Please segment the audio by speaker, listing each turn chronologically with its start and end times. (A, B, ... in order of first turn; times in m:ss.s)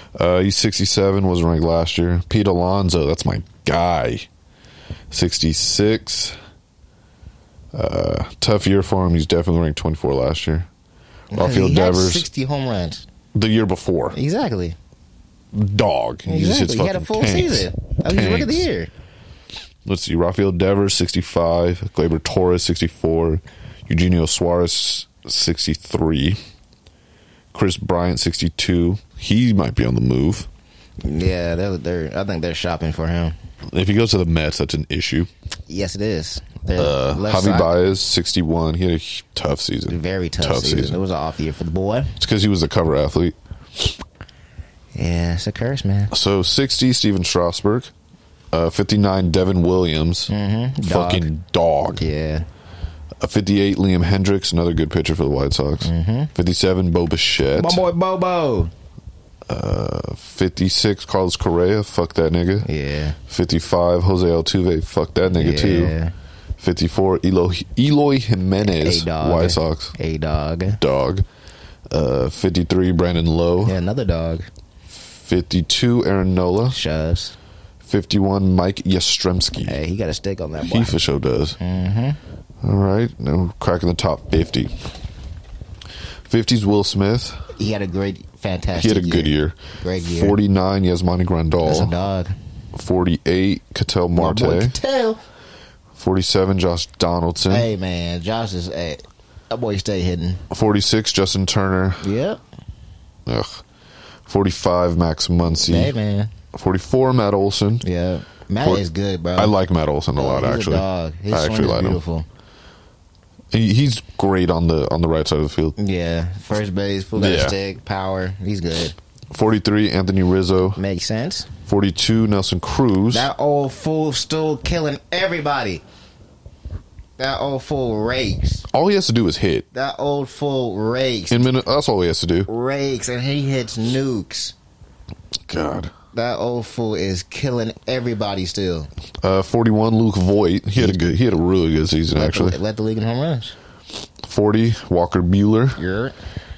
0:00.2-0:04.3 A
0:05.1-0:06.4 A
0:07.7-0:10.7 A
0:11.3-0:13.0 B
0:11.4-0:12.3 A
0:13.3-0:14.2 A
0:14.1-0:14.8 B
0:15.5-0:18.7 A
0:16.3-0:18.9 B
0:19.8-0:26.4 A
0:27.5-0:30.5 A
0:31.0-0:33.4 B
0:33.7-0:35.3 A
0:35.7-0:37.7 B
0:36.8-0:41.0 A
0:39.9-0:42.2 B
0:42.2-0:44.0 A
0:45.0-0:46.1 B
0:46.1-0:47.9 A
0:48.5-0:50.3 A
0:50.3-0:51.3 B
0:50.8-0:52.0 A
0:52.0-0:52.5 B
0:53.2-0:57.8 A
0:55.8-0:56.3 B
0:57.5-0:58.7 B
0:59.5-1:02.7 A
1:02.6-1:03.2 B
1:03.3-1:06.0 A
1:05.3-1:06.1 B
1:06.6-1:10.0 A
1:08.6-1:10.8 B
1:10.8-1:11.2 A
1:11.9-1:13.8 A
1:13.6-1:14.5 B
1:15.0-1:16.8 A
1:16.7-1:17.4 B
1:17.8-1:19.8 A
1:19.6-1:21.0 B
1:20.6-1:21.6 A
1:21.6-1:22.2 B
1:22.6-1:24.7 A
1:26.3-1:27.4 A
1:27.5-1:30.4 B
1:28.8-1:31.9 A
1:31.6-1:32.3 B
1:32.8-1:34.8 A
1:34.2-1:35.2 B
1:36.0-1:37.7 A
1:37.5-1:40.4 B
1:40.5-1:42.1 A
1:42.0-1:42.4 B
1:43.3-1:43.6 A
1:44.3-1:45.9 A
1:45.5-1:46.3 B
1:46.5-1:47.8 A
1:47.8-1:49.5 B
1:49.4-1:52.0 A
1:50.2-1:52.3 B
1:53.5-1:55.8 A
1:55.8-1:59.0 B
1:57.2-1:57.6 A
1:59.3-2:00.8 A
2:00.8-2:01.5 B
2:01.7-2:03.3 A
2:03.1-2:05.8 B
2:07.2-2:08.7 B
2:08.7-2:09.6 A
2:09.7-2:11.5 B
2:11.3-2:12.5 A
2:12.5-2:14.6 B
2:15.5-2:15.9 A
2:16.1-2:18.9 B
2:19.2-2:22.6 A
2:22.1-2:23.6 B
2:24.2-2:25.8 A
2:25.8-2:26.2 B